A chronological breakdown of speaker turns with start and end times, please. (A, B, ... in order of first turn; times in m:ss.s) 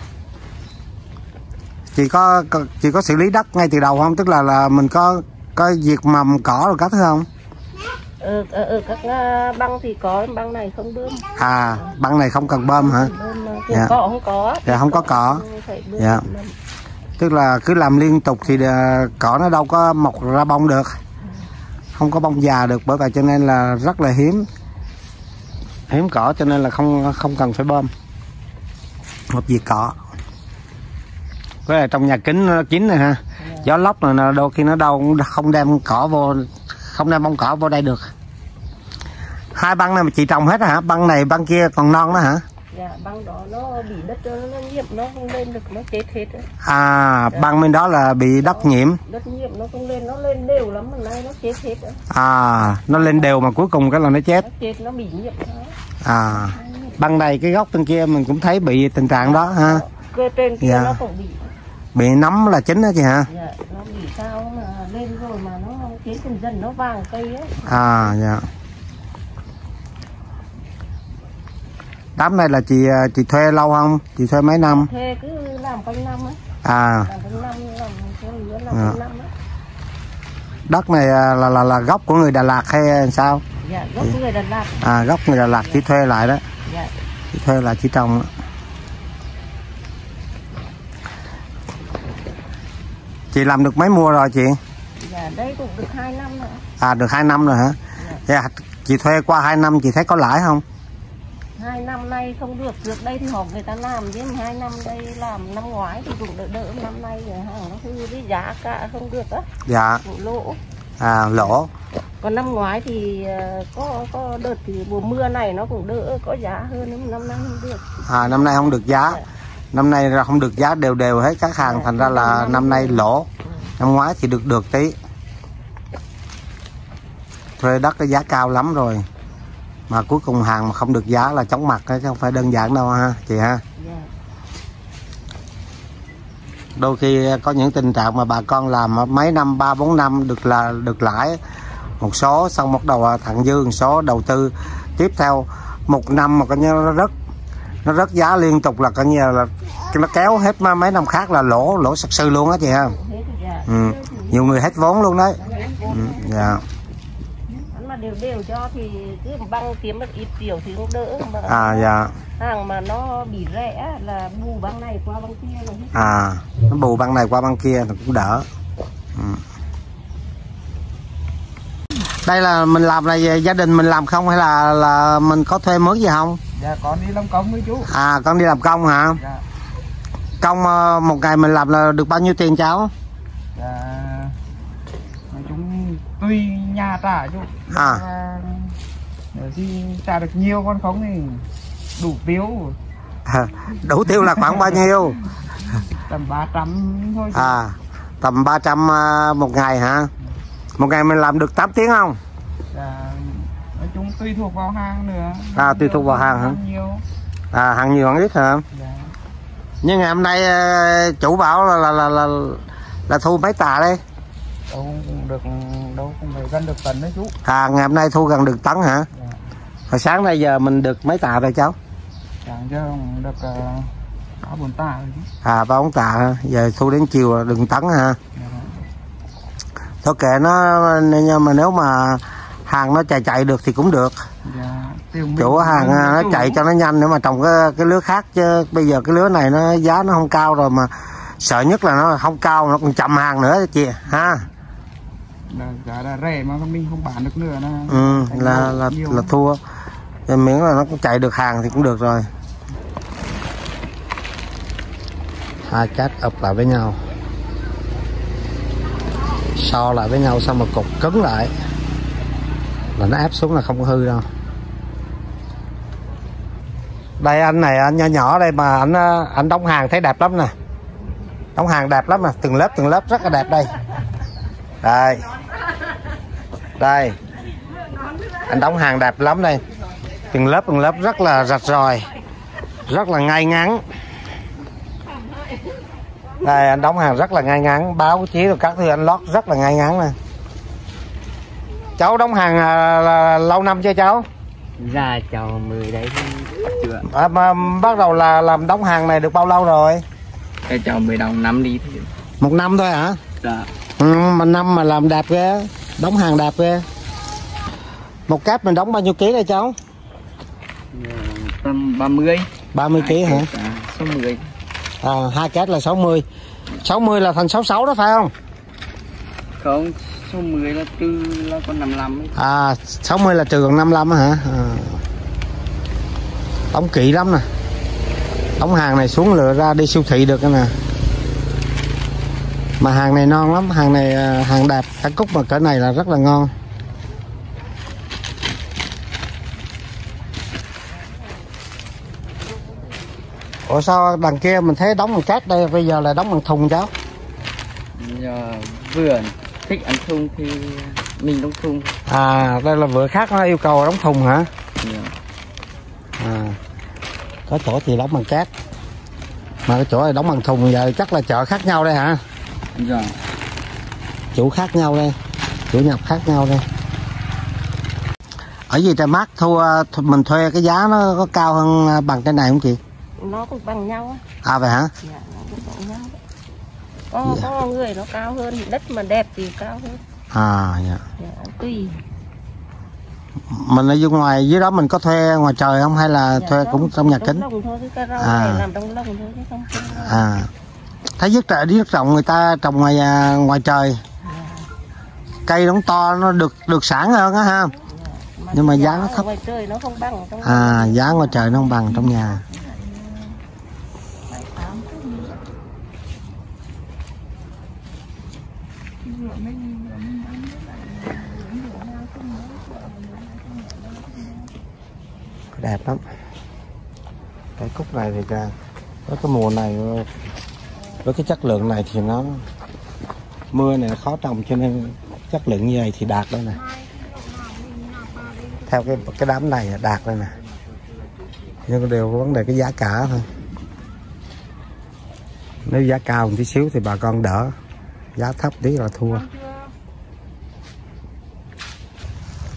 0:02.0-0:07.3 A
0:08.2-0:11.3 B
0:11.4-0:13.1 A
0:12.7-0:16.6 B
0:14.6-0:15.4 A
0:16.0-0:16.2 A
0:17.2-0:21.0 A
0:22.0-0:24.5 A
0:25.9-0:27.9 A
0:29.3-0:30.0 A
0:31.7-0:38.1 A
0:33.4-0:33.7 B
0:39.5-0:42.4 A
0:42.7-0:46.5 B
0:46.6-0:49.0 A
0:48.4-0:52.0 B
0:52.1-0:54.5 A
0:52.9-0:53.3 B
0:54.4-0:55.8 B
0:56.0-0:59.8 A
0:56.3-0:57.0 B
0:59.1-1:01.5 B
1:00.6-1:01.0 A
1:02.0-1:03.3 A
1:03.3-1:08.1 B
1:07.6-1:08.5 A
1:12.2-1:14.9 A
1:14.6-1:16.4 B
1:16.6-1:17.1 A
1:17.1-1:19.3 B
1:20.7-1:23.4 A
1:23.6-1:24.9 B
1:24.8-1:26.4 A
1:26.7-1:26.9 B
1:27.3-1:28.3 A
1:33.3-1:34.6 A
1:35.0-1:36.6 B
1:36.8-1:40.6 A
1:38.0-1:38.2 B
1:41.6-1:49.5 B
1:49.6-1:50.0 A
1:50.0-1:50.6 B
1:51.0-1:51.7 A
1:52.2-1:59.2 B
1:58.0-1:59.2 A
1:59.7-2:03.3 A
2:01.6-2:03.7 B
2:03.8-2:05.0 A
2:07.6-2:09.0 A
2:09.9-2:13.6 A
2:13.8-2:14.1 B
2:16.8-2:21.4 A
2:22.0-2:27.1 A
2:27.8-2:33.0 A
2:32.6-2:34.8 B
2:33.7-2:36.6 A
2:35.4-2:36.6 B
2:37.7-2:46.2 B
2:41.5-2:42.1 A
2:45.9-2:48.5 A
2:49.2-2:49.4 A
2:52.2-2:56.4 A
2:56.6-2:57.9 C
2:57.8-2:59.2 A
3:00.4-3:02.9 A
3:03.6-3:04.4 C
3:05.3-3:08.8 C
3:07.7-3:08.0 A
3:09.3-3:12.8 C
3:13.3-3:15.2 A
3:16.1-3:17.6 C
3:17.3-3:20.1 A
3:20.8-3:22.2 A
3:22.7-3:27.0 C
3:25.6-3:26.6 A
3:27.5-3:28.6 A
3:28.8-3:29.1 C
3:29.8-3:34.0 A
3:34.7-3:37.3 C
3:37.4-3:39.1 A
3:39.9-3:41.8 A
3:42.4-3:43.9 C
3:44.4-3:45.3 C
3:45.4-3:48.2 A
3:48.4-3:48.7 C
3:50.0-3:54.2 A
3:54.4-3:56.6 C
3:55.4-4:04.5 A
4:05.5-4:09.3 C
4:07.9-4:09.6 A
4:10.3-4:12.3 A
4:15.7-4:17.0 A
4:19.6-4:21.5 A
4:23.0-4:24.3 A
4:27.2-4:30.5 A
4:31.6-4:33.7 A
4:34.8-4:35.3 A
4:36.8-4:37.2 A
4:38.4-4:39.6 A
4:40.3-4:42.1 A
4:42.9-4:43.8 A
4:46.4-4:50.2 A
4:52.0-4:54.3 A
4:54.8-4:57.1 D
4:57.0-5:00.0 A
5:00.7-5:02.1 D
5:02.4-5:03.2 A
5:03.4-5:03.7 D
5:04.0-5:06.9 A
5:08.3-5:09.8 A
5:10.9-5:14.4 D
5:12.7-5:13.5 A
5:15.0-5:16.2 A
5:16.8-5:18.3 A
5:19.6-5:22.3 D
5:22.4-5:25.0 A
5:26.7-5:27.5 A
5:28.6-5:30.7 A
5:32.8-5:36.5 A
5:43.7-5:46.9 A
5:48.0-5:52.0 D
5:52.1-5:54.5 A
5:54.8-5:55.1 D
5:56.2-5:56.6 A
5:57.5-5:58.5 A
5:59.7-6:02.2 A
6:02.8-6:03.2 D
6:04.3-6:05.2 A
6:05.7-6:06.6 A
6:08.7-6:12.8 A
6:13.2-6:14.2 B
6:14.4-6:14.9 A
6:15.0-6:16.2 B
6:17.1-6:20.0 B
6:20.3-6:21.0 A
6:21.2-6:22.0 B
6:23.5-6:27.4 A
6:26.4-6:30.3 B
6:28.2-6:28.6 A
6:30.0-6:30.5 A
6:31.2-6:34.0 A
6:34.2-6:34.7 B
6:35.5-6:37.7 A
6:37.7-6:42.6 B
6:38.5-6:39.2 A
6:40.4-6:42.4 A
6:44.3-6:45.4 B
6:49.1-6:51.9 C
6:51.0-6:54.5 B
6:55.6-6:56.0 A
6:57.6-6:58.5 A
6:59.1-7:00.1 A
7:01.0-7:02.4 A
7:03.5-7:06.6 A
7:06.7-7:08.7 B
7:08.7-7:10.3 A
7:11.7-7:13.3 A
7:15.7-7:17.5 A
7:18.2-7:19.3 A